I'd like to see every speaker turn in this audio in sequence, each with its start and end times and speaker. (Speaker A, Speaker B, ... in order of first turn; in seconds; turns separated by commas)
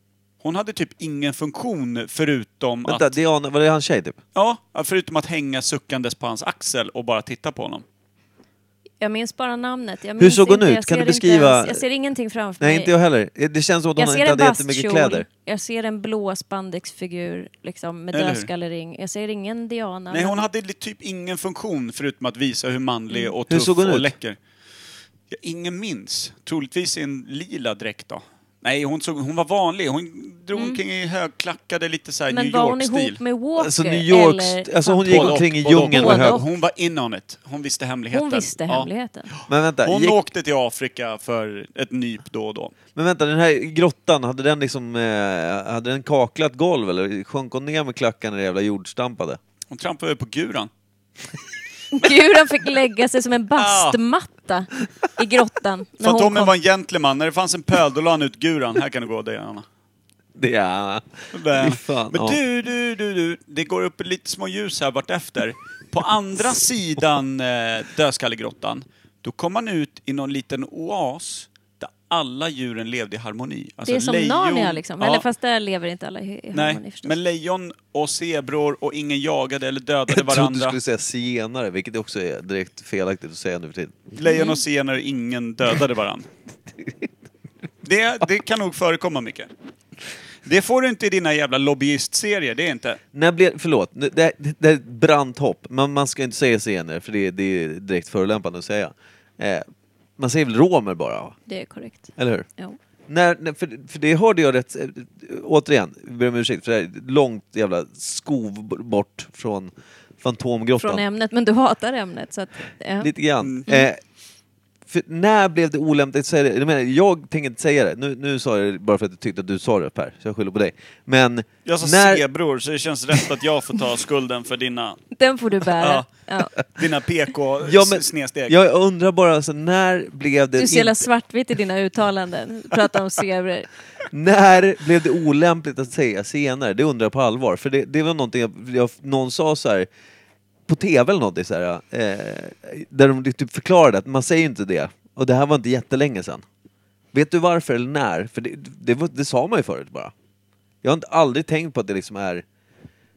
Speaker A: 0.4-3.1, Speaker B: 2.9-4.2, Speaker A: 4.3-7.8, Speaker C: 9.0-12.9, Speaker B: 10.2-11.8, Speaker B: 12.6-15.3, Speaker C: 14.0-20.4, Speaker A: 18.1-18.5, Speaker A: 20.1-24.4, Speaker B: 23.5-24.1, Speaker A: 25.3-33.2, Speaker C: 32.3-36.5, Speaker B: 33.6-36.4, Speaker A: 35.1-42.7, Speaker C: 38.1-39.3, Speaker B: 39.5-40.2, Speaker B: 43.0-49.4, Speaker A: 49.7-50.7, Speaker C: 51.9-56.5, Speaker A: 53.6-54.0, Speaker A: 56.0-59.6, Speaker B: 60.4-62.4, Speaker A: 61.3-75.2, Speaker C: 73.8-77.2, Speaker A: 76.5-80.8, Speaker B: 80.1-84.0, Speaker A: 84.2-86.3, Speaker C: 84.2-84.6, Speaker A: 87.8-89.5, Speaker A: 90.5-93.0, Speaker B: 93.1-99.7, Speaker B: 100.2-101.4, Speaker C: 101.5-102.8, Speaker B: 102.2-102.5, Speaker B: 103.1-111.0, Speaker C: 110.8-113.1, Speaker B: 113.0-114.0, Speaker A: 113.4-113.7, Speaker B: 114.9-122.2, Speaker A: 121.7-125.0, Speaker C: 125.2-126.5, Speaker A: 125.6-128.6, Speaker B: 127.6-131.1, Speaker C: 130.6-133.7, Speaker B: 134.1-139.9, Speaker B: 140.7-146.4, Speaker B: 147.1-150.1, Speaker B: 150.8-152.4